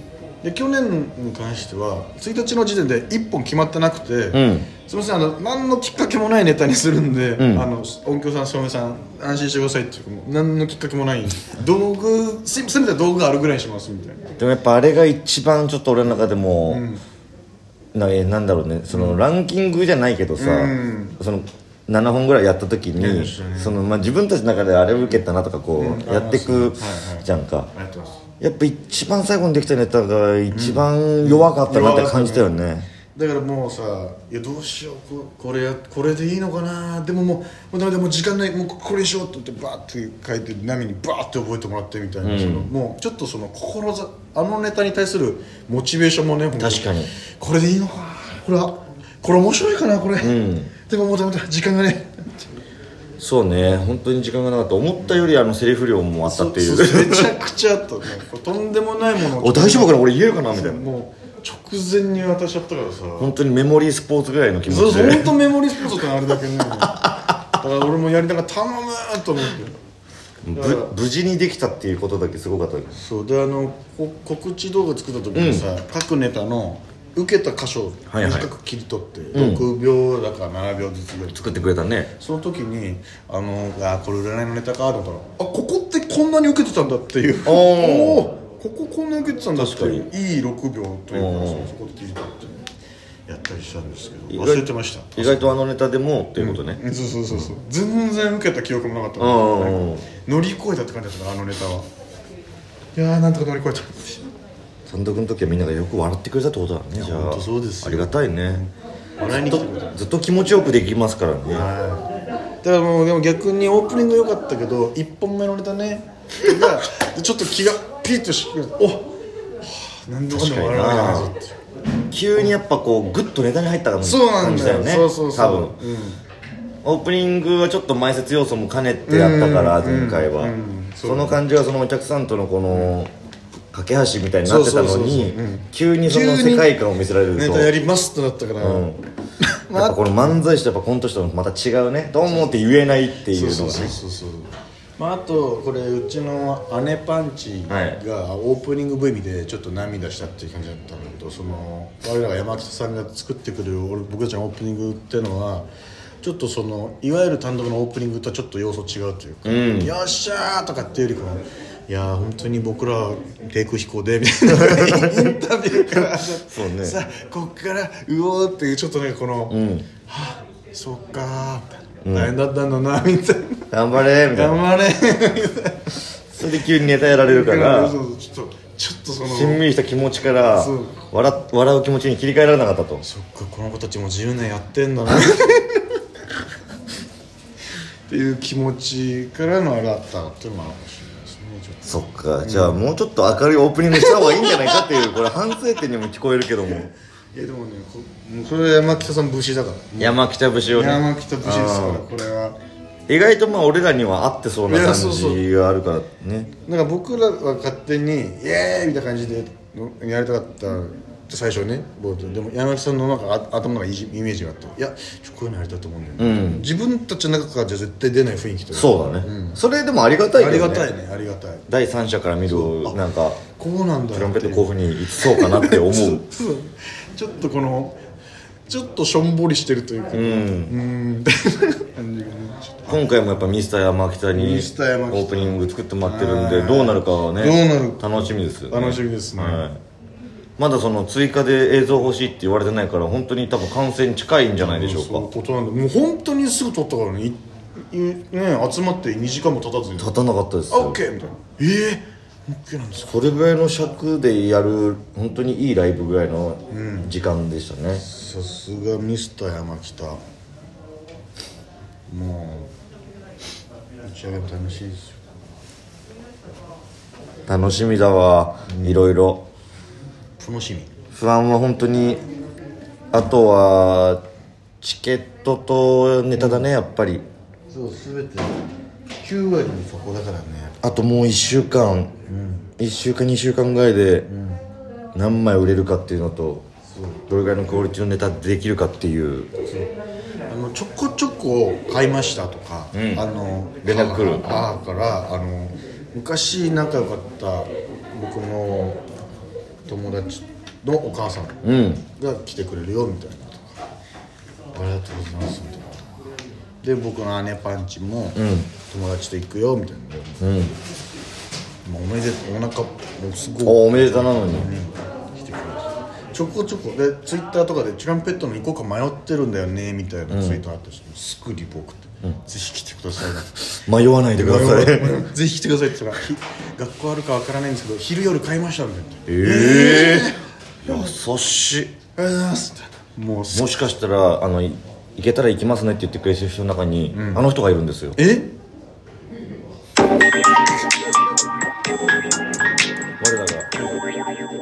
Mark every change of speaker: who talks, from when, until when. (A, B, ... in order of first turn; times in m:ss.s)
0:00.4-0:14.3 A
0:04.3-0:04.7 B
0:07.4-0:07.7 B
0:14.4-0:16.8 B
0:16.7-0:17.0 A
0:17.9-0:27.7 B
0:18.9-0:19.2 A
0:20.4-0:21.2 A
0:23.0-0:23.8 A
0:25.8-0:28.2 A
0:28.4-0:32.9 B
0:30.5-0:32.5 A
0:33.1-0:52.3 A
0:42.2-0:42.7 B
0:46.6-0:47.1 B
0:50.2-0:50.7 B
0:53.2-0:57.3 B
0:56.2-1:03.3 A
0:59.4-1:00.8 B
1:03.2-1:05.3 B
1:04.7-1:09.8 A
1:06.9-1:07.2 B
1:10.4-1:13.0 B
1:10.5-1:10.9 A
1:12.9-1:32.6 A
1:15.3-1:15.7 B
1:18.1-1:18.5 B
1:19.3-1:19.7 B
1:21.3-1:22.1 B
1:27.4-1:28.3 B
1:29.6-1:30.1 B
1:31.1-1:31.7 B
1:33.3-1:35.6 A
1:34.3-1:37.5 B
1:36.4-1:41.9 A
1:39.2-1:40.0 B
1:42.9-1:44.3 A
1:44.9-1:48.6 B
1:47.0-1:50.0 A
1:49.3-1:51.7 B
1:51.5-1:52.1 A
1:52.6-2:01.6 A
2:00.3-2:01.3 B
2:02.1-2:05.8 B
2:04.0-2:06.2 A
2:06.8-2:13.1 B
2:09.1-2:11.4 A
2:13.7-2:17.7 B
2:14.4-2:16.7 A
2:17.3-2:18.9 A
2:18.6-2:19.0 B
2:19.6-2:20.4 A
2:19.7-2:24.0 B
2:22.3-2:22.6 A
2:23.3-2:35.7 A
2:27.7-2:28.0 B
2:36.2-2:53.7 A
2:39.4-2:39.9 B
2:44.5-2:45.3 B
2:45.9-2:47.0 B
2:49.5-2:49.9 B
2:52.0-2:52.3 B
2:53.7-2:54.6 B
2:54.3-2:56.0 A
2:56.3-2:58.0 B
2:57.1-2:59.6 A
2:59.2-3:03.0 B
3:00.5-3:01.0 A
3:03.0-3:05.8 A
3:08.1-3:12.8 A
3:11.8-3:16.9 B
3:14.0-3:15.3 A
3:17.3-3:20.2 A
3:20.0-3:22.0 B
3:20.7-3:22.6 A
3:23.1-3:26.5 B
3:24.7-3:25.4 A
3:26.6-3:39.6 A
3:36.2-3:36.6 B
3:38.7-3:40.9 B
3:40.3-3:41.6 A
3:41.7-3:43.4 B
3:42.5-3:43.0 A
3:43.6-3:48.0 A
3:44.1-3:46.2 B
3:48.7-3:53.2 A
3:50.1-3:50.8 B
3:52.9-3:59.8 B
3:54.3-3:59.6 A
4:00.6-4:05.3 B
4:04.6-4:10.2 A
4:10.0-4:11.0 B
4:10.7-4:13.4 A
4:13.1-4:18.0 B
4:16.7-4:17.1 A
4:17.9-4:20.2 A
4:22.1-4:22.7 A
4:24.0-4:25.2 A
4:27.5-4:29.5 B
4:28.7-4:29.0 A
4:30.4-4:30.9 A
4:31.1-4:32.2 B
4:33.1-4:34.2 B
4:34.8-4:37.2 B
4:36.4-4:36.6 A
4:37.7-4:38.6 A
4:39.2-4:40.9 A
4:40.8-4:42.1 B
4:42.2-4:42.7 A
4:42.8-4:44.3 B
4:44.3-4:44.6 A
4:45.1-4:46.6 B
4:46.9-4:47.2 A
4:47.3-4:49.5 B
4:49.6-4:49.9 A
4:50.5-4:59.0 A
4:52.9-4:53.2 B
4:53.8-4:54.6 B
4:59.9-5:03.7 A
5:01.6-5:02.0 B
5:04.7-5:06.1 A
5:06.8-5:10.4 A
5:08.3-5:08.7 B
5:10.4-5:10.8 B
5:11.8-5:23.8 A
5:13.6-5:14.7 B
5:20.3-5:20.6 B
5:23.8-5:25.2 B
5:24.3-5:31.1 A
5:29.3-5:30.3 B
5:30.8-5:32.0 B
5:32.2-5:33.9 A
5:33.5-5:38.2 B
5:37.1-5:37.4 A
5:38.2-5:38.5 A
5:43.2-5:43.7 B